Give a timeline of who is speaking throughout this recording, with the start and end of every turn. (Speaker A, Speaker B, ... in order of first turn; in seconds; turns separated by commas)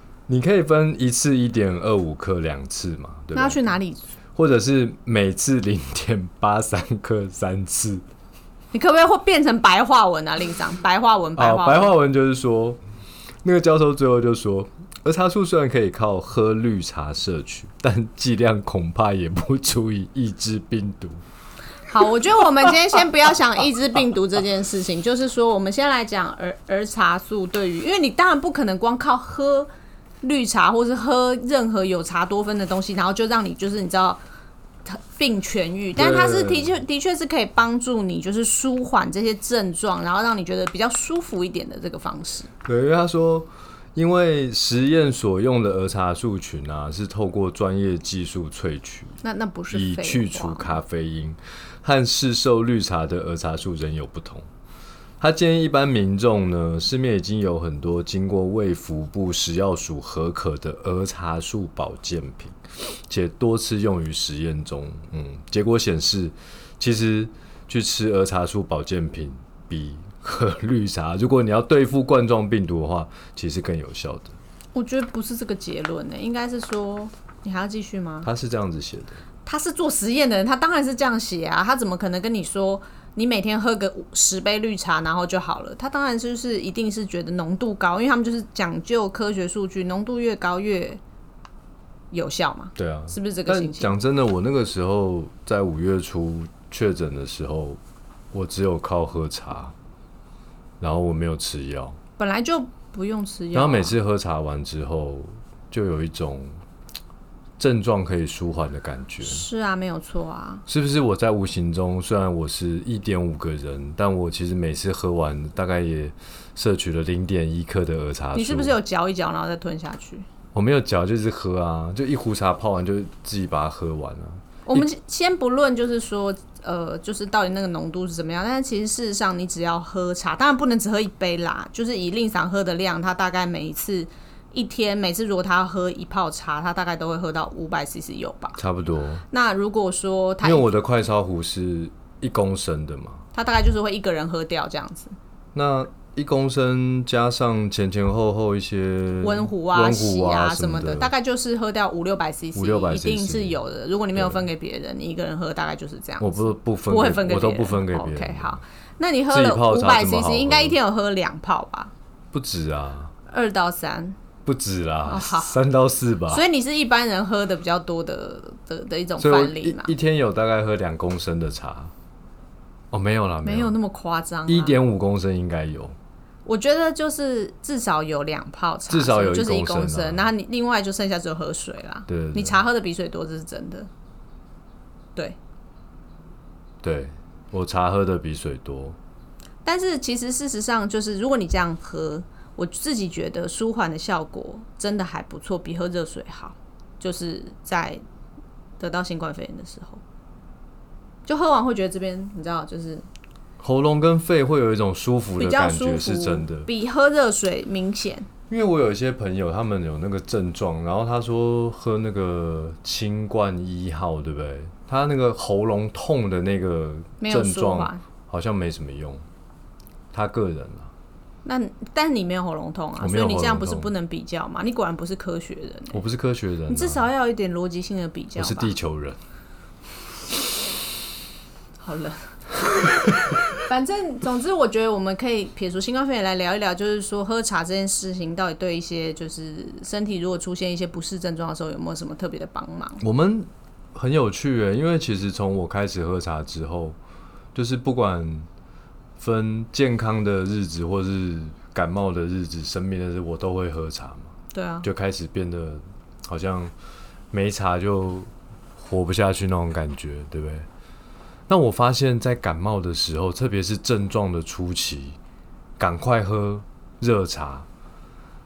Speaker A: 0.3-3.6, Speaker B: 3.3-4.1, Speaker A: 4.4-8.0, Speaker B: 8.7-12.0, Speaker A: 11.4-12.8, Speaker A: 13.4-21.2, Speaker B: 21.9-29.7, Speaker B: 30.2-34.2, Speaker B: 34.9-42.5, Speaker A: 36.0-36.8, Speaker A: 42.6-49.2, Speaker B: 49.2-50.8, Speaker A: 49.7-54.5, Speaker A: 55.2-74.3, Speaker B: 74.7-78.3, Speaker A: 78.2-79.2, Speaker B: 79.5-91.0, Speaker B: 92.1-94.0, Speaker A: 92.8-97.8, Speaker A: 98.3-99.7, Speaker A: 100.8-102.0, Speaker B: 102.2-104.0, Speaker A: 103.5-106.5, Speaker A: 107.6-109.5, Speaker B: 109.2-110.7, Speaker A: 110.7-118.8, Speaker B: 118.3-120.3, Speaker A: 120.5-124.9, Speaker B: 124.7-138.6, Speaker A: 138.6-139.2, Speaker B: 139.3-140.7, Speaker A: 140.4-143.2, Speaker B: 143.3-145.2, Speaker A: 145.5-151.1, Speaker B: 149.2-161.9, Speaker A: 152.6-153.6, Speaker A: 154.2-154.4, Speaker A: 156.2-158.6, Speaker A: 159.3-160.8, Speaker A: 162.3-163.1, Speaker B: 163.3-164.2, Speaker A: 164.4-166.4, Speaker B: 165.1-165.6, Speaker B: 166.3-169.9, Speaker A: 169.2-171.9, Speaker A: 172.9-173.7, Speaker B: 173.4-174.8, Speaker A: 174.5-176.0, Speaker B: 176.4-183.9, Speaker A: 178.9-180.3, Speaker A: 182.1-182.6, Speaker A: 186.8-189.0, Speaker B: 189.7-198.0, Speaker B: 198.8-200.0, Speaker B: 201.3-203.1, Speaker A: 203.6-206.7, Speaker B: 205.4-208.3, Speaker A: 208.5-219.2, Speaker B: 217.2-218.0, Speaker A: 220.1-220.9, Speaker B: 221.4-226.0, Speaker A: 223.0-223.9, Speaker A: 225.9-227.1, Speaker B: 226.7-228.7, Speaker A: 228.4-229.2, Speaker B: 231.8-243.0, Speaker A: 243.0-247.0, Speaker A: 247.5-248.5, Speaker A: 249.2-254.3, Speaker B: 254.5-254.9, Speaker A: 254.8-256.7, Speaker A: 257.3-260.7, Speaker A: 261.5-265.2, Speaker A: 265.8-267.7